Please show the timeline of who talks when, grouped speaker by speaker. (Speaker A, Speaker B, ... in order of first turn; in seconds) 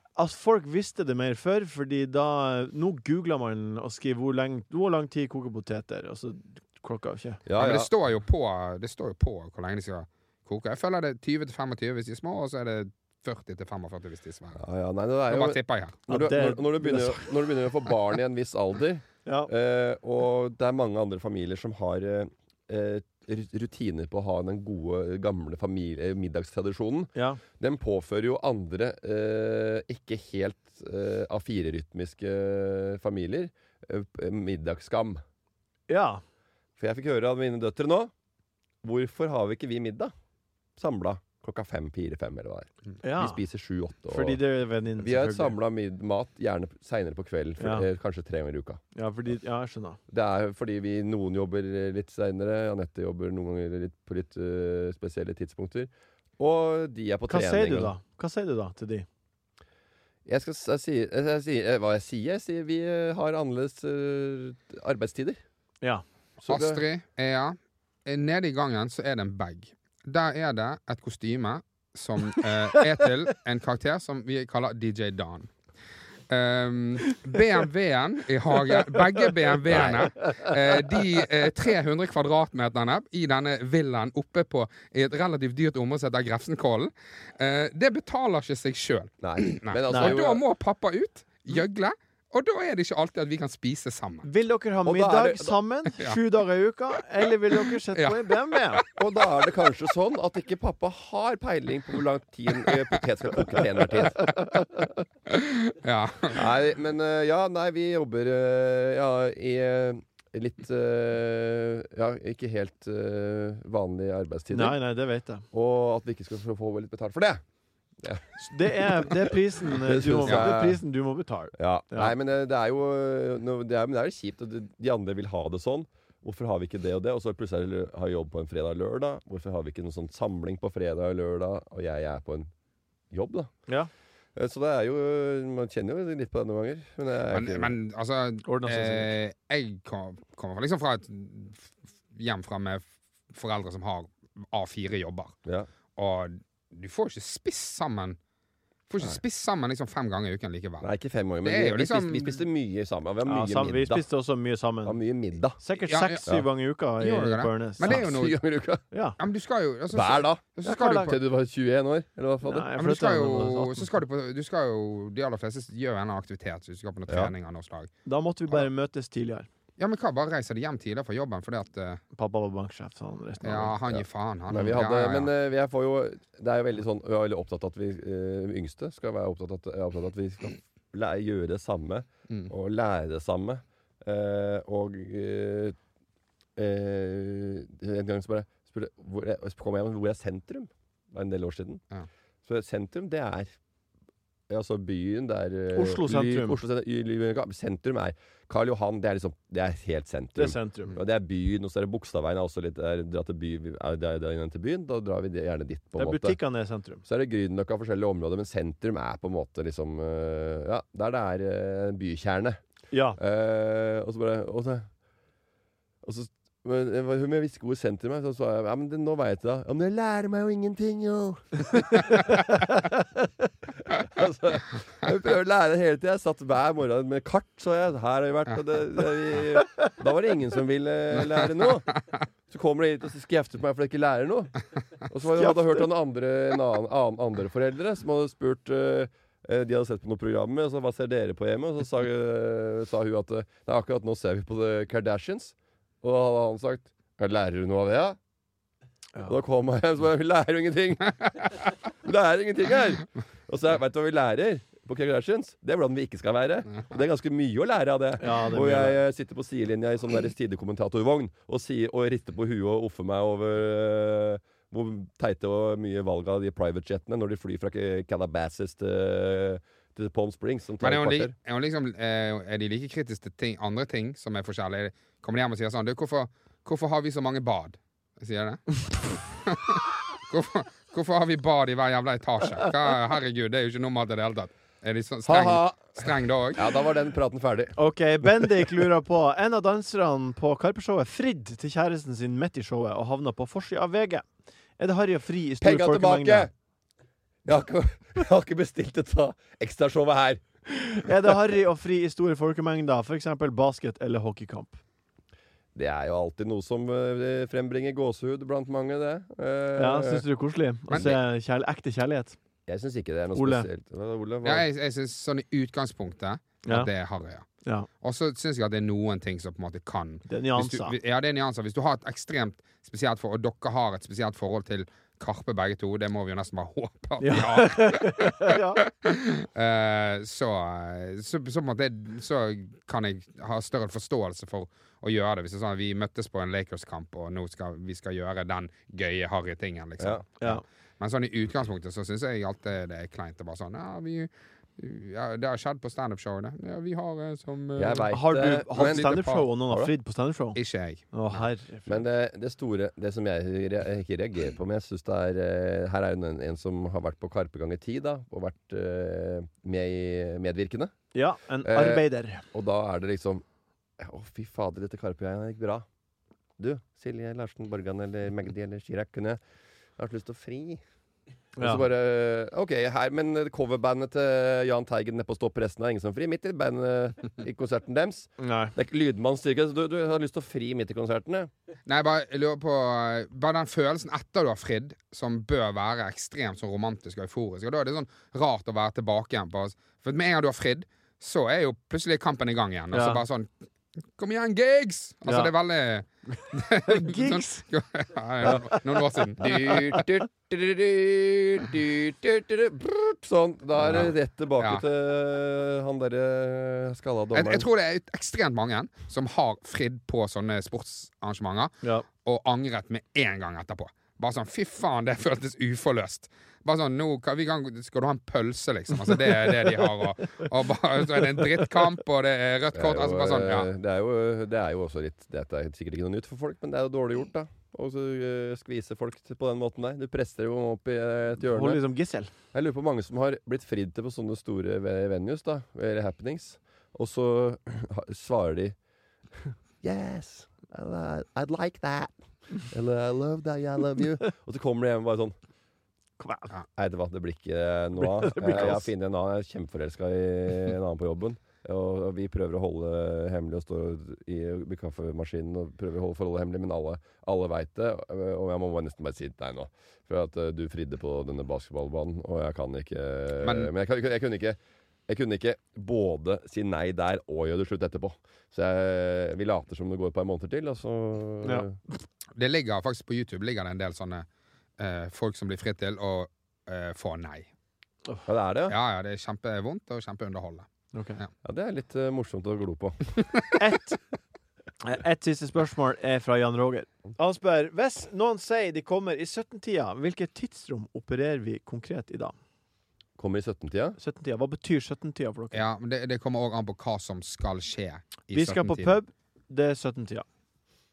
Speaker A: 0.2-7.4, 16.1-17.3, 19.2-19.5, 27.1-27.4, 35.9-36.2, 43.0-43.4, 44.1-45.6, 47.6-47.9, 49.0-50.0, 57.3-59.1, 89.9-90.2, 94.2-98.8, 114.5-115.5, 118.4-122.1, 138.4-139.2, 153.2-155.0, 155.6-158.0, 158.9-159.2, 160.6-161.2, 162.4-163.9, 168.1-169.5, 172.2-173.8, 195.7-196.6, 200.4-201.0, 206.0-207.0, 212.9-213.2, 221.9-222.8, 235.4-235.9, 258.2-259.0, 287.8-294.2, 294.8-296.5, 301.1-304.8, 309.8-312.4, 313.4-313.7, 320.3-321.0, 327.2-328.8, 348.1-350.6, 351.1-352.0, 361.1-362.4, 371.6-371.9, 378.4-378.8, 392.9-393.2, 395.3-395.5, 396.7-397.6, 398.4-399.0, 419.1-419.7, 421.4-421.7, 431.4-432.3, 446.2-446.5, 448.0-448.9, 480.9-481.2, 483.6-484.0, 484.8-492.3, 494.0-495.6, 498.3-500.2
Speaker B: 7.5-7.9, 14.6-35.2, 36.8-38.1, 38.8-40.1, 40.8-44.4, 45.0-48.8, 50.1-57.9, 60.3-65.4, 66.4-66.8, 79.7-80.3, 89.2-90.4, 94.8-95.6, 99.0-105.0, 106.3-114.8, 115.5-117.4, 118.0-120.8, 121.6-132.5, 133.1-133.5, 134.4-137.8, 150.8-154.1, 154.8-155.6, 157.8-158.8, 159.9-162.7, 167.1-167.3, 173.9-185.8, 186.6-191.8, 192.5-193.5, 194.5-206.4, 207.0-212.6, 213.2-214.9, 216.0-222.6, 223.8-234.6, 235.1-248.2, 249.3-271.3, 285.2-287.8, 295.6-296.5, 297.5-301.0, 305.8-310.2, 310.9-311.2, 312.7-314.6, 340.0-340.6, 347.8-349.9, 351.9-360.9, 361.6-363.4, 364.0-365.9, 366.6-369.4, 370.0-370.8, 371.6-381.5, 399.4-407.7, 422.8-431.8, 432.5-438.8, 439.4-445.4, 446.8-464.6, 465.1-471.8, 478.3-478.8, 481.4-483.6, 493.2-494.0
Speaker C: 7.6-14.6, 15.3-16.0, 66.5-75.5, 76.3-94.3, 98.0-98.9, 105.3-106.4, 137.3-145.4, 146.0-148.2, 148.9-150.9, 151.4-152.4, 155.9-156.2, 157.0-158.4, 159.2-161.2, 162.8-167.9, 169.8-172.0, 173.4-175.3, 270.8-286.8, 314.4-317.5, 318.0-340.4, 341.0-348.1, 348.8-349.5, 350.6-351.5, 381.9-393.5, 394.2-399.9, 403.9-404.9, 407.3-423.7, 463.4-463.7, 472.4-474.3, 474.8-477.5, 478.7-480.7, 495.5-498.9